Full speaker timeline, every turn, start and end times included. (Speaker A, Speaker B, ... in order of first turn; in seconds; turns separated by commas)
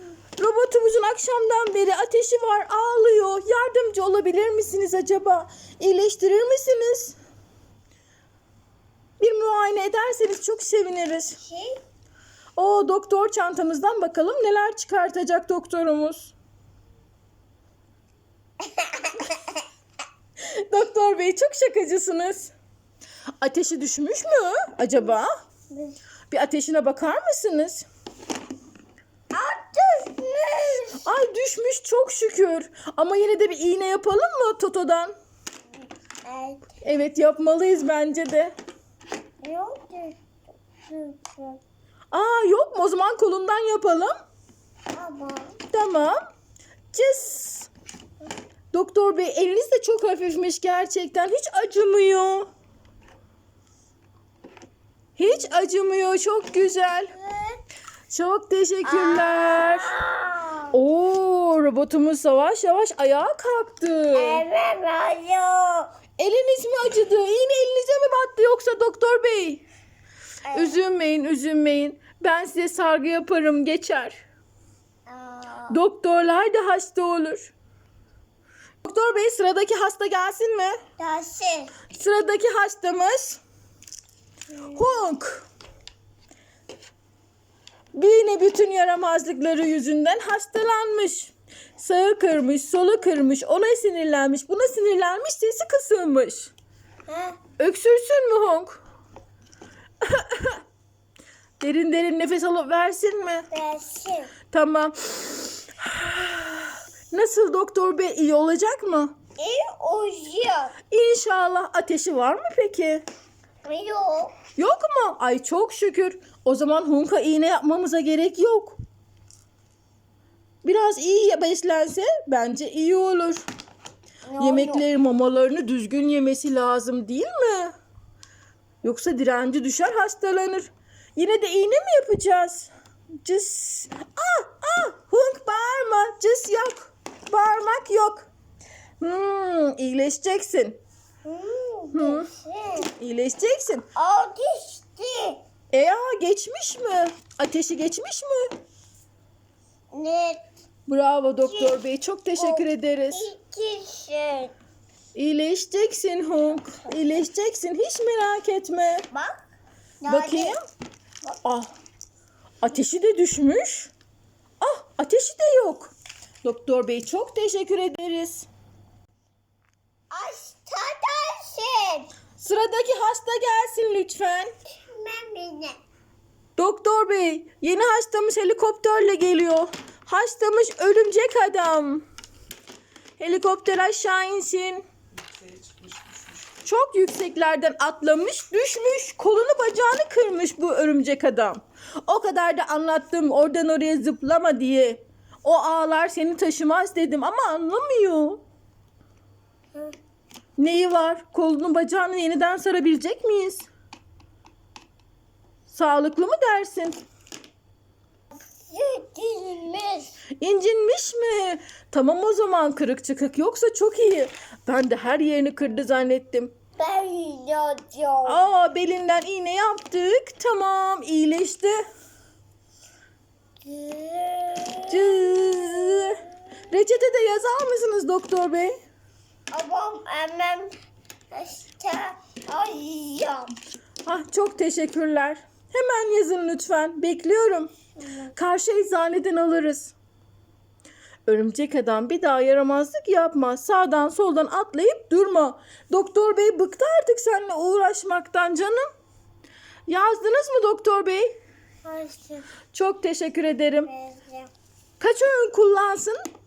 Speaker A: 0.4-7.2, Speaker A: 9.2-11.4, Speaker B: 11.4-11.8, Speaker A: 12.6-16.3, Speaker B: 18.6-19.6, Speaker A: 20.5-22.5, Speaker A: 23.4-25.3, Speaker B: 25.7-26.0, Speaker A: 26.3-27.9, Speaker B: 29.3-31.0, Speaker A: 31.0-35.1, Speaker B: 36.2-36.7, Speaker A: 36.8-38.5, Speaker B: 39.4-40.2, Speaker B: 40.9-41.6, Speaker A: 42.1-44.1, Speaker B: 44.9-45.5, Speaker A: 45.7-46.2, Speaker A: 46.9-47.7, Speaker A: 48.7-52.5, Speaker A: 55.2-57.1, Speaker B: 57.1-57.6, Speaker A: 58.1-60.0, Speaker B: 58.8-60.7, Speaker A: 60.7-64.4, Speaker B: 64.1-65.9, Speaker A: 66.2-69.6, Speaker B: 70.5-70.8, Speaker A: 70.5-74.2, Speaker B: 75.1-75.8, Speaker A: 75.7-77.5, Speaker A: 78.8-80.8, Speaker B: 81.0-81.7, Speaker A: 81.9-83.4, Speaker A: 84.7-85.5, Speaker A: 87.9-96.5, Speaker B: 97.1-97.4, Speaker A: 97.6-98.8, Speaker A: 100.0-100.6, Speaker A: 101.6-103.5, Speaker B: 103.5-104.3, Speaker A: 104.5-109.1, Speaker B: 109.4-110.7, Speaker A: 110.9-113.0, Speaker B: 113.6-114.3, Speaker A: 114.5-118.8, Speaker A: 120.6-123.5, Speaker B: 124.3-124.8, Speaker A: 124.4-127.7, Speaker A: 128.8-132.7, Speaker A: 133.2-138.3, Speaker A: 139.0-140.8, Speaker B: 141.2-142.9, Speaker A: 141.9-142.3, Speaker A: 142.9-143.9, Speaker B: 143.9-145.4, Speaker A: 145.7-148.5, Speaker B: 149.9-150.4, Speaker A: 150.9-153.3, Speaker B: 151.4-151.8, Speaker B: 152.3-154.6, Speaker A: 155.2-159.1, Speaker B: 159.1-159.4, Speaker B: 160.0-160.6, Speaker A: 160.1-160.6, Speaker A: 161.4-161.7, Speaker A: 162.6-163.9, Speaker A: 164.6-168.5, Speaker B: 170.1-172.1, Speaker A: 172.4-174.5, Speaker B: 174.9-175.8, Speaker A: 176.6-182.1, Speaker A: 183.2-184.9, Speaker A: 186.6-198.4, Speaker A: 200.6-203.7, Speaker A: 205.7-207.0, Speaker B: 208.4-210.2, Speaker A: 210.4-216.5, Speaker B: 216.8-218.4, Speaker A: 218.3-221.8, Speaker B: 223.6-226.2, Speaker A: 224.9-228.8, Speaker B: 229.5-230.7, Speaker B: 231.3-233.5, Speaker A: 234.1-237.7, Speaker B: 238.0-238.3, Speaker A: 238.3-239.9, Speaker A: 241.3-248.9, Speaker A: 249.9-251.3, Speaker B: 251.8-252.5, Speaker A: 252.7-253.9, Speaker B: 253.8-254.5, Speaker A: 255.0-256.2